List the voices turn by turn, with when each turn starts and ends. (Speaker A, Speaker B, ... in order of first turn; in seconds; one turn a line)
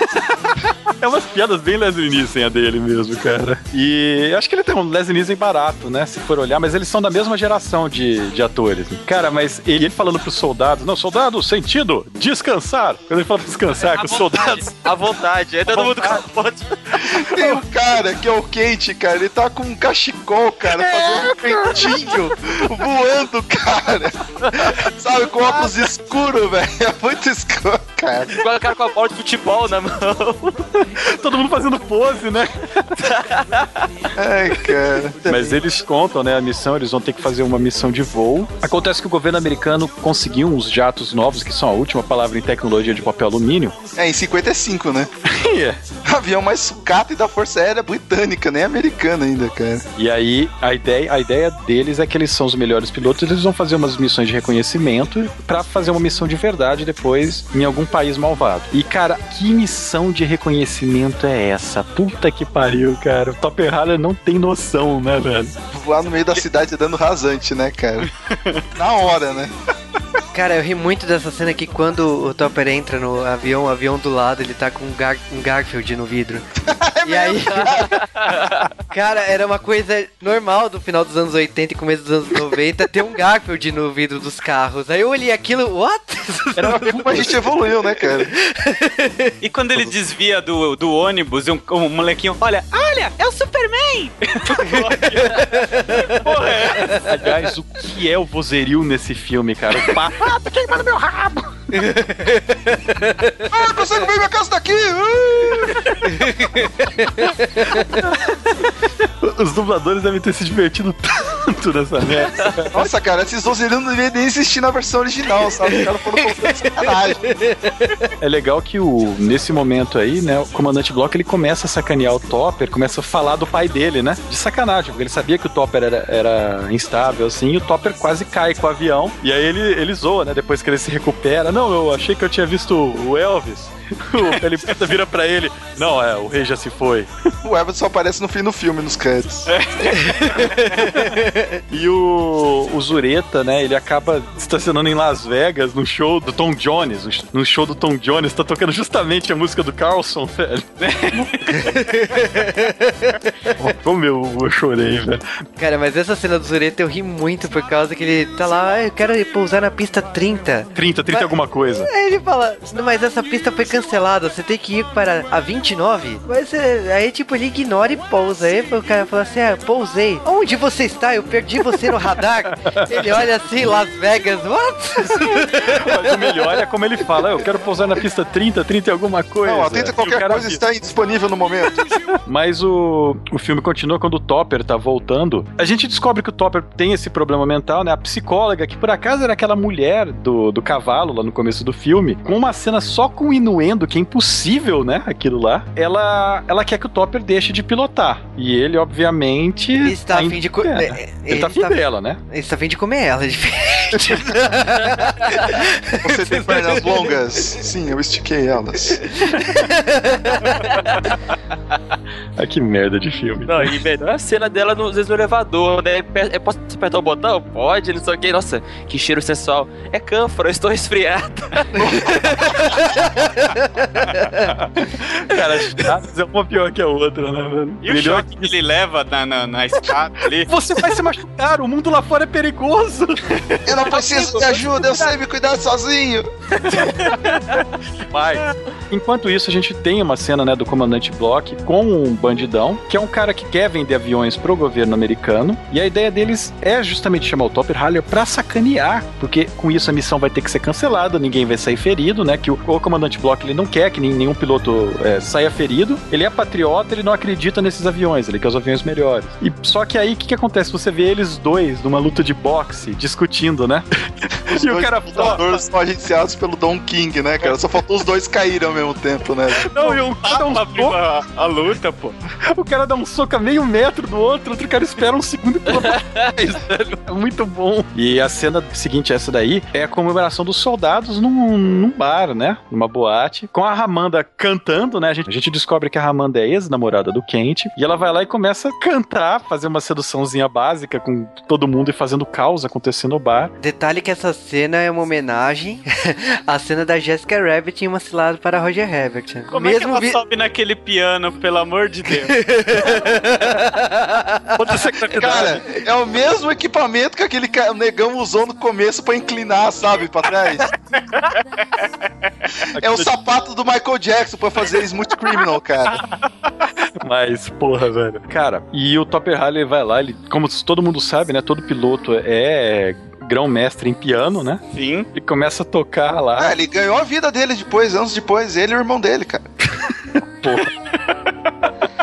Speaker A: 0.5-14.8
Speaker B: 13.8-17.5
Speaker A: 15.7-16.2
Speaker C: 17.0-28.3
Speaker B: 21.1-21.5
Speaker B: 24.4-24.8
Speaker B: 28.3-30.8
Speaker A: 31.0-33.1
Speaker B: 33.1-33.8
Speaker C: 34.1-35.6
Speaker A: 35.2-43.7
Speaker C: 43.9-45.1
Speaker A: 45.3-45.8
Speaker C: 46.0-49.8
Speaker A: 50.0-65.5
Speaker C: 65.7-68.1
Speaker D: 68.3-68.6
Speaker C: 68.7-69.5
Speaker E: 70.3-76.4
Speaker C: 76.6-77.9
Speaker E: 77.0-78.0
Speaker B: 77.7-78.6
Speaker E: 78.9-87.2
Speaker C: 86.6-88.3
Speaker E: 88.4-89.3
Speaker D: 89.4-95.4
Speaker E: 94.7-96.2
Speaker D: 96.1-97.0
Speaker A: 96.4-101.9
Speaker E: 101.7-103.3
Speaker C: 103.5-105.7
Speaker E: 106.1-107.9
Speaker A: 108.0-108.4
Speaker A: 109.2-112.9
Speaker C: 112.7-117.2
Speaker E: 117.2-118.1
Speaker A: 118.2-137.1
Speaker C: 137.4-139.5
Speaker D: 139.5-140.8
Speaker E: 140.0-141.5
Speaker A: 141.7-150.7
Speaker D: 150.8-151.7
Speaker E: 151.6-153.2
Speaker A: 153.6-155.2
Speaker E: 155.6-161.3
Speaker A: 160.7-161.9
Speaker E: 161.9-176.4
Speaker A: 172.5-173.0
Speaker A: 175.1-180.6
Speaker C: 179.4-182.0
Speaker A: 182.2-202.2
Speaker E: 199.8-207.0
Speaker C: 206.0-209.0
Speaker E: 209.5-210.6
Speaker A: 212.4-213.7
Speaker B: 213.5-223.2
Speaker C: 221.8-222.0
Speaker E: 223.6-224.4
Speaker A: 224.4-228.5
Speaker D: 227.8-230.5
Speaker A: 230.5-233.6
Speaker C: 233.7-236.3
Speaker B: 234.0-235.0
Speaker B: 237.0-237.5
Speaker A: 238.1-265.4
Speaker C: 264.5-269.7
Speaker A: 269.6-271.0
Speaker D: 269.7-272.2
Speaker A: 272.5-293.5
Speaker B: 275.9-276.2
Speaker E: 293.6-300.2
Speaker D: 299.5-302.4
Speaker E: 302.3-304.5
Speaker A: 304.6-305.6
Speaker C: 305.0-310.7
Speaker D: 310.9-311.9
Speaker A: 312.7-313.1
Speaker C: 312.8-316.0
Speaker A: 317.0-324.6
Speaker D: 324.7-325.1
Speaker A: 325.1-326.5
Speaker C: 326.4-329.4
Speaker A: 330.1-330.7